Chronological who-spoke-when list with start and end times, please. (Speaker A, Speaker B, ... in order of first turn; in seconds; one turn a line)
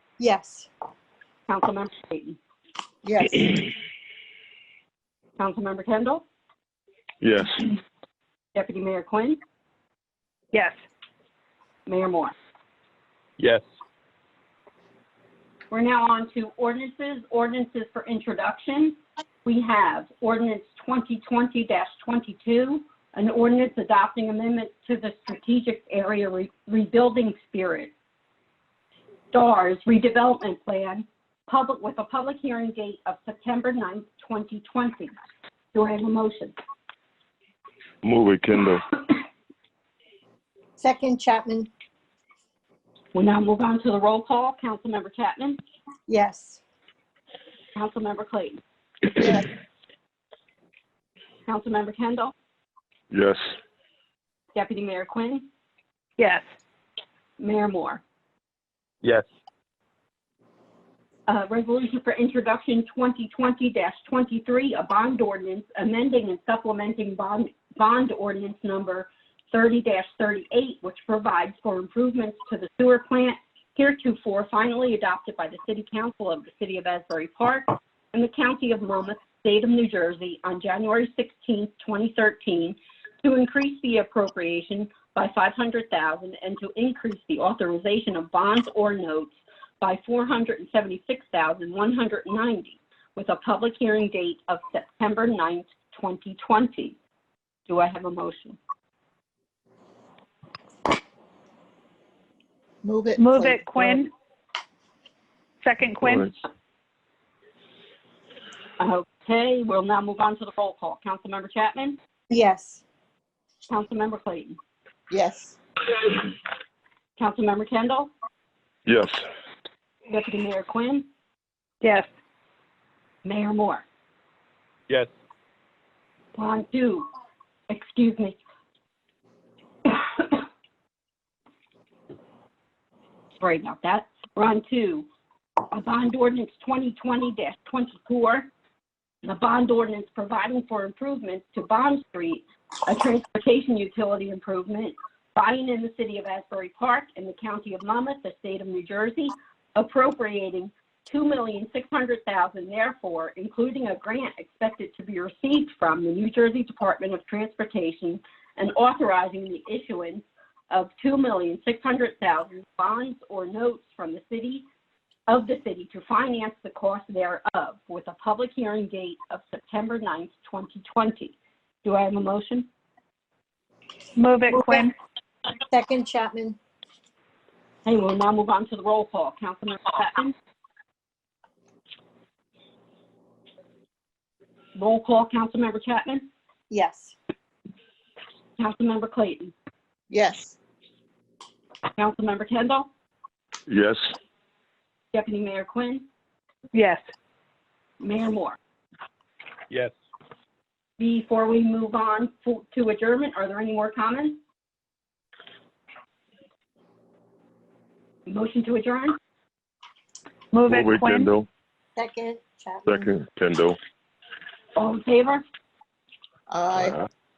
Speaker A: 0.2-0.7
Speaker B: 1.5-2.4
Speaker A: 3.0-3.6
Speaker B: 5.4-6.2
Speaker C: 7.2-7.7
Speaker B: 8.6-9.4
Speaker B: 11.9-12.3
Speaker B: 15.7-27.9
Speaker B: 29.3-35.1
Speaker B: 35.7-36.5
Speaker C: 38.0-38.9
Speaker A: 40.8-41.7
Speaker B: 43.1-45.6
Speaker A: 46.1-46.6
Speaker B: 47.8-48.6
Speaker A: 49.2-49.5
Speaker B: 51.5-52.3
Speaker C: 53.1-53.4
Speaker B: 54.5-55.5
Speaker D: 56.2-56.5
Speaker B: 57.4-58.0
Speaker B: 61.3-97.0
Speaker B: 97.7-98.6
Speaker A: 102.8-104.0
Speaker D: 103.2-104.1
Speaker D: 105.6-106.3
Speaker B: 108.8-112.0
Speaker A: 112.3-112.8
Speaker B: 113.7-114.6
Speaker A: 115.1-115.6
Speaker B: 117.2-118.1
Speaker C: 118.9-119.2
Speaker B: 120.1-121.1
Speaker D: 121.8-122.1
Speaker B: 123.2-123.8
Speaker B: 126.3-127.1
Speaker B: 127.7-128.4
Speaker B: 133.4-135.1
Speaker B: 135.7-138.5
Speaker B: 139.2-164.7
Speaker B: 165.3-172.7
Speaker D: 174.2-174.9
Speaker A: 174.5-174.9
Speaker A: 175.7-176.6
Speaker B: 177.8-180.3
Speaker B: 184.8-186.3
Speaker A: 186.7-187.2
Speaker B: 188.6-189.5
Speaker A: 190.1-190.6
Speaker B: 192.0-192.9
Speaker C: 193.7-194.0
Speaker B: 195.1-196.1
Speaker D: 196.7-197.0
Speaker B: 198.0-198.6
Speaker B: 201.0-204.4
Speaker B: 208.3-209.2
Speaker D: 210.5-211.3
Speaker C: 210.7-211.5
Speaker A: 212.0-213.1
Speaker C: 212.9-213.8
Speaker B: 214.8-215.4
Speaker A: 216.5-217.0
Speaker C: 216.8-217.0